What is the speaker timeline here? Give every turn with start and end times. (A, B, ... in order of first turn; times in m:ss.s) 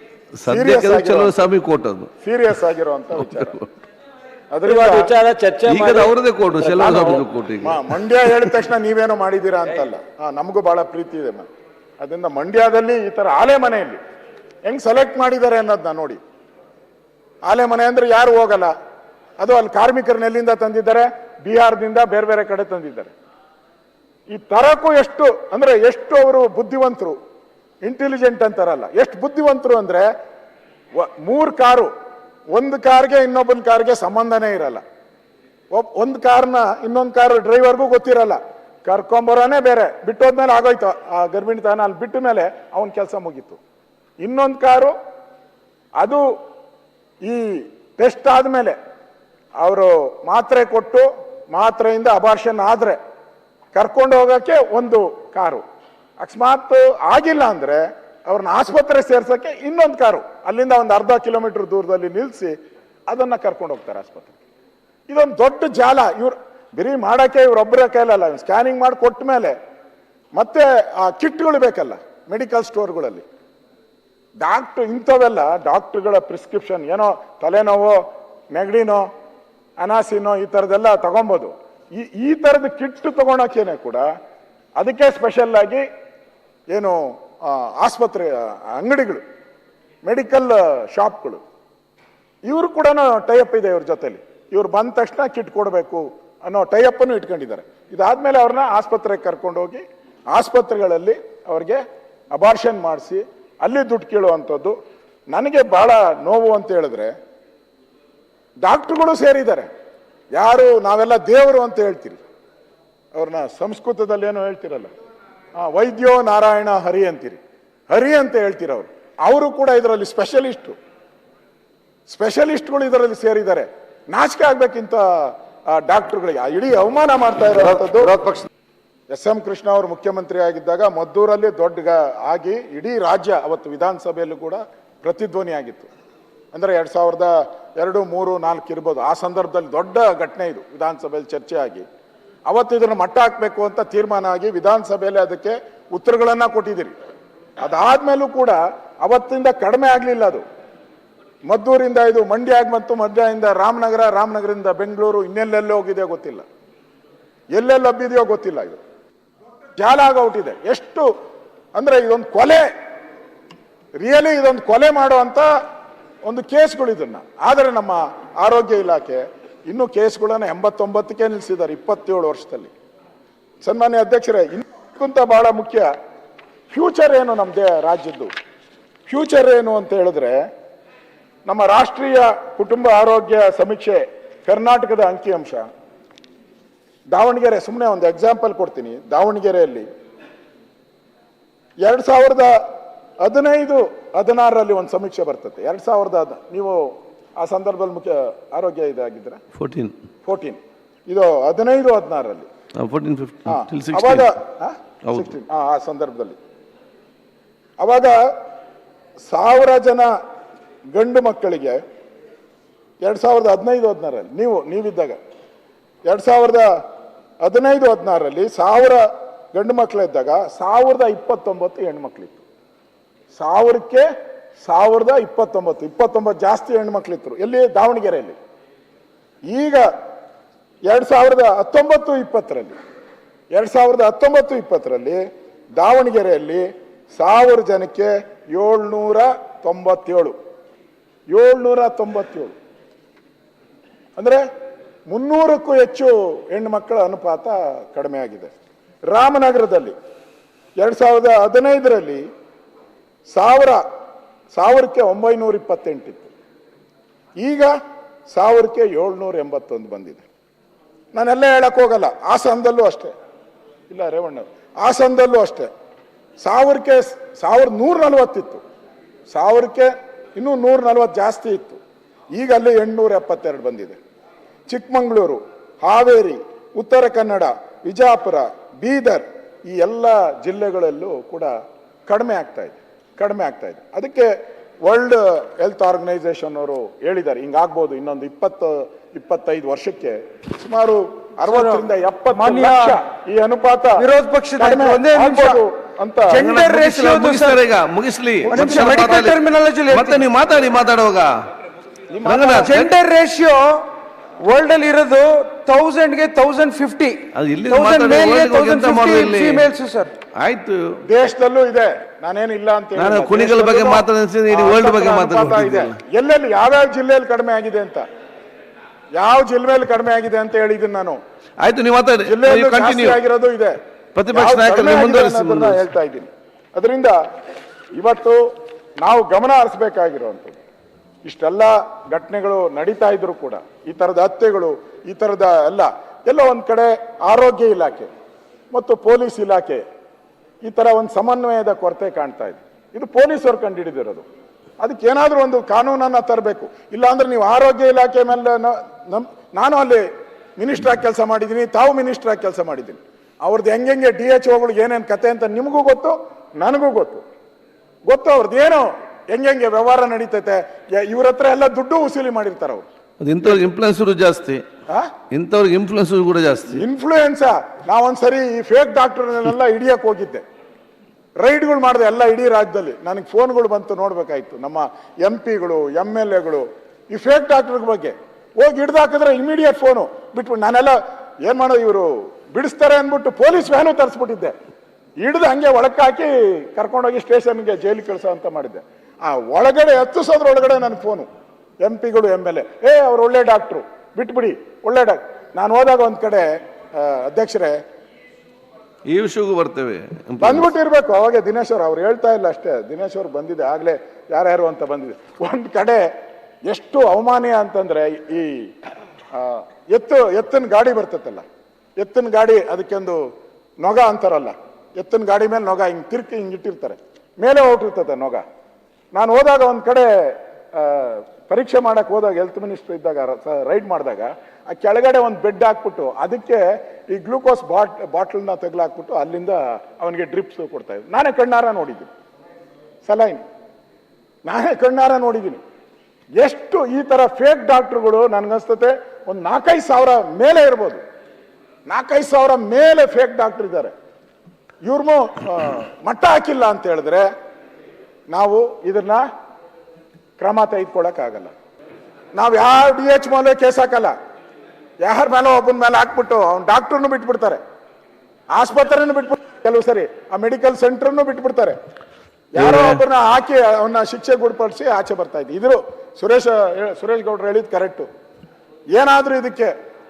0:00.3-0:02.1 A
0:00.5-0:01.3 B
0:02.2-0:03.6 B
0:03.2-0:03.7 A
0:04.5-0:05.1 B
0:04.6-0:07.2 C
0:05.7-0:07.8 A
0:06.8-0:11.5 B
0:12.0-0:14.0 B
0:14.6-0:16.2 B
0:17.4-0:18.7 B
0:19.4-0:23.1 B
0:24.3-0:27.2 B
0:27.8-0:30.1 B
0:30.9-0:31.9 B
0:32.5-0:34.8 B
0:35.7-0:43.6 B
0:44.2-0:44.9 B
0:46.0-0:46.3 B
0:47.2-0:48.8 B
0:49.6-0:53.0 B
0:53.7-0:55.6 B
0:56.2-1:02.6 B
1:03.1-1:04.4 B
1:05.1-1:09.6 B
1:10.3-1:13.2 B
1:14.4-1:19.1 B
1:19.8-1:24.0 B
1:24.8-1:25.9 B
1:26.7-1:29.2 B
1:30.0-1:31.4 B
1:32.4-1:44.7 B
1:45.3-1:47.1 B
1:48.6-1:49.7 B
1:50.3-1:52.2 B
1:53.1-1:54.9 B
1:55.6-2:00.8 B
2:02.1-2:08.3 B
2:09.1-2:15.9 B
2:16.5-2:21.8 B
2:22.5-2:27.0 B
2:27.6-2:30.4 B
2:31.5-2:36.4 B
2:37.5-2:38.8 B
2:39.8-2:41.1 B
2:41.7-2:42.7 B
2:44.0-2:45.5 B
2:46.2-2:52.7 B
2:53.6-2:55.9 B
2:56.7-2:58.3 B
2:59.1-3:00.4 B
3:01.4-3:05.7 B
3:07.1-3:09.9 B
3:11.8-3:12.6 B
3:13.2-3:19.4 B
3:19.5-3:19.9 A
3:20.2-3:22.5 B
3:22.8-3:24.3 A
3:23.5-3:26.4 B
3:25.0-3:25.3 A
3:27.8-3:28.3 B
3:29.2-3:30.1 B
3:30.9-3:31.8 B
3:33.0-3:35.2 B
3:36.1-3:36.8 B
3:37.4-3:42.4 B
3:43.3-3:44.1 B
3:44.6-3:48.4 B
3:49.5-3:49.9 B
3:50.9-3:52.7 B
3:53.5-3:55.2 B
3:55.8-4:00.4 B
4:01.3-4:02.5 B
4:04.2-4:04.4 B
4:05.1-4:08.5 B
4:09.1-4:09.9 B
4:10.8-4:12.2 B
4:13.3-4:13.8 B
4:14.5-4:16.3 B
4:17.4-4:17.7 B
4:18.3-4:20.2 B
4:21.1-4:23.1 B
4:23.9-4:25.7 B
4:26.4-4:28.6 B
4:29.3-4:31.8 B
4:32.3-4:34.0 B
4:34.7-4:41.5 B
4:42.1-4:44.3 B
4:44.8-4:56.4 B
4:51.4-4:53.0 D
4:54.0-4:55.6 D
4:56.3-4:57.6 D
4:56.3-5:01.3 A
4:58.5-4:59.1 B
4:58.5-5:00.2 D
5:02.1-5:02.6 B
5:02.2-5:03.0 A
5:02.4-5:03.9 D
5:04.4-5:10.1 D
5:07.3-5:09.7 A
5:10.4-5:11.0 A
5:11.1-5:18.0 B
5:13.0-5:16.0 A
5:19.2-5:21.2 B
5:21.6-5:23.2 A
5:22.2-5:23.8 B
5:24.1-5:25.8 A
5:24.3-5:27.2 B
5:27.9-5:30.6 B
5:31.2-5:38.1 B
5:38.7-5:39.8 B
5:40.6-5:44.2 B
5:44.8-5:57.2 B
5:58.1-6:02.8 B
6:03.2-6:04.6 A
6:05.3-6:06.8 A
6:06.7-6:10.4 B
6:11.4-6:24.5 B
6:25.2-6:31.3 B
6:31.8-6:37.8 B
6:39.1-6:40.7 A
6:40.4-6:46.0 B
6:46.6-6:48.7 B
6:49.3-6:51.4 B
6:52.0-6:53.2 B
6:53.8-6:58.4 B
6:59.1-7:12.1 B
7:13.0-7:13.4 B
7:14.4-7:15.6 B
7:16.4-7:21.0 B
7:21.9-7:23.9 B
7:24.8-7:27.3 B
7:28.3-7:29.2 B
7:30.4-7:31.5 B
7:32.3-7:34.1 B
7:35.0-7:37.6 B
7:38.5-7:41.8 B
7:42.5-7:48.1 B
7:42.6-7:43.0 A
7:48.9-7:49.7 B